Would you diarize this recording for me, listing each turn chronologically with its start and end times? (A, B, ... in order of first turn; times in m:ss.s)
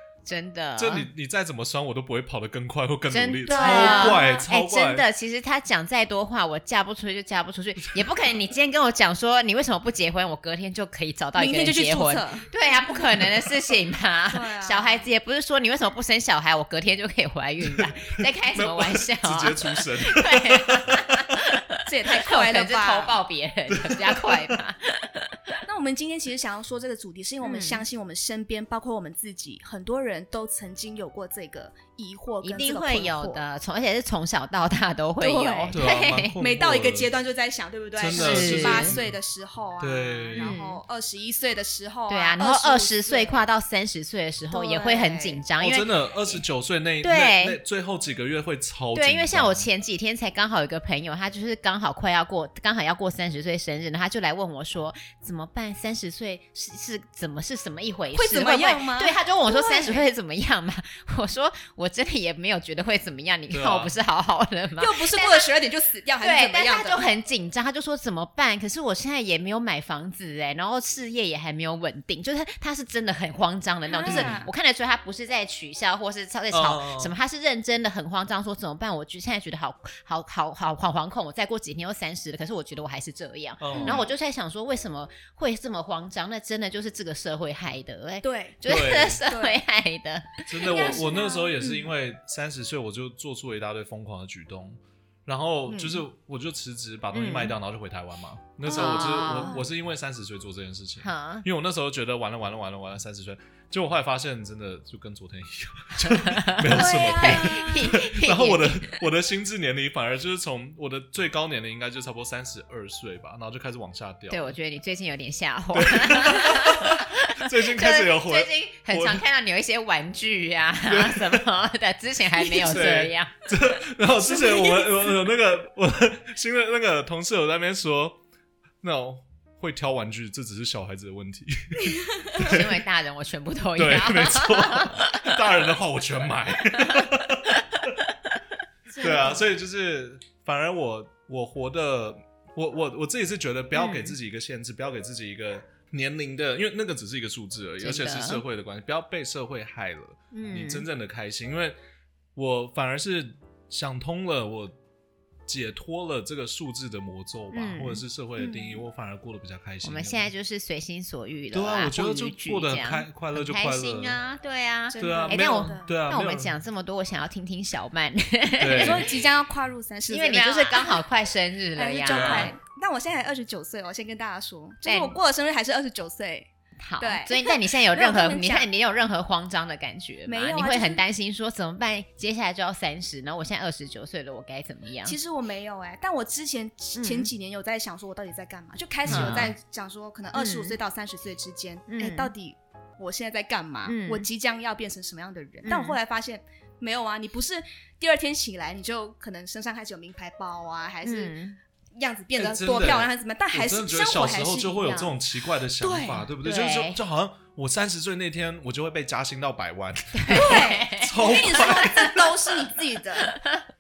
0:00.3-0:01.1 A
0:00.8-0:05.1 B
0:03.1-0:25.6 A
0:03.5-0:04.4 C
0:11.4-0:12.7 C
0:14.3-0:15.1 C
0:17.6-0:21.3 B
0:21.8-0:23.2 C
0:23.7-0:24.6 B
0:25.6-0:33.4 C
0:27.4-0:27.8 A
0:32.4-0:36.4 A
0:35.2-0:43.4 C
0:35.7-0:37.1 B
0:38.0-0:39.2 B
0:38.1-0:39.0 A
0:39.8-0:40.6 B
0:40.4-0:40.8 A
0:42.1-0:46.4 A
0:44.5-0:45.4 C
0:45.6-0:49.7 B
0:47.0-0:47.6 A
0:48.9-1:05.5 A
0:58.1-1:00.1 C
1:03.5-1:03.9 B
1:04.8-1:07.1 C
1:06.2-1:31.2 A
1:13.9-1:14.5 C
1:14.1-1:14.4 B
1:16.5-1:17.2 B
1:23.6-1:24.1 B
1:23.7-1:24.1 C
1:28.2-1:29.6 C
1:28.6-1:29.2 B
1:30.5-1:54.6 B
1:30.6-1:31.9 C
1:37.1-1:37.6 A
1:38.7-1:39.7 C
1:38.7-1:39.6 A
1:41.0-1:41.5 A
1:46.2-1:49.0 A
1:46.8-1:47.8 C
1:54.3-2:03.3 A
1:55.7-1:59.2 B
2:00.9-2:01.5 B
2:02.6-2:08.2 B
2:04.4-2:04.9 C
2:08.8-2:12.8 B
2:12.3-2:15.2 A
2:13.8-2:17.9 B
2:16.9-2:17.6 A
2:18.9-2:19.4 C
2:19.0-2:31.8 B
2:23.8-2:24.2 A
2:27.8-2:28.4 A
2:30.3-2:30.9 A
2:32.4-2:34.8 B
2:35.5-2:40.3 B
2:37.5-2:38.0 A
2:38.4-2:38.8 C
2:39.8-2:49.1 A
2:41.5-2:44.2 B
2:44.9-2:45.9 C
2:45.0-2:46.6 B
2:48.6-2:49.1 B
2:48.8-2:51.0 C
2:50.1-2:52.6 A
2:51.8-2:56.5 C
2:52.1-2:52.5 B
2:54.8-2:55.2 A
2:56.8-3:05.2 A
2:57.0-2:58.7 C
3:00.3-3:01.0 C
3:05.0-3:21.4 C
3:07.0-3:07.3 A
3:09.1-3:09.5 B
3:09.1-3:09.5 A
3:10.4-3:10.8 A
3:11.9-3:12.3 A
3:13.9-3:14.3 A
3:15.6-3:16.0 A
3:21.0-3:21.6 A
3:22.0-3:25.0 C
3:22.4-3:32.4 B
3:24.8-3:25.1 A
3:25.8-3:26.3 C
3:26.4-3:27.0 A
3:30.1-3:32.0 A
3:30.3-3:33.4 C
3:33.2-3:33.6 A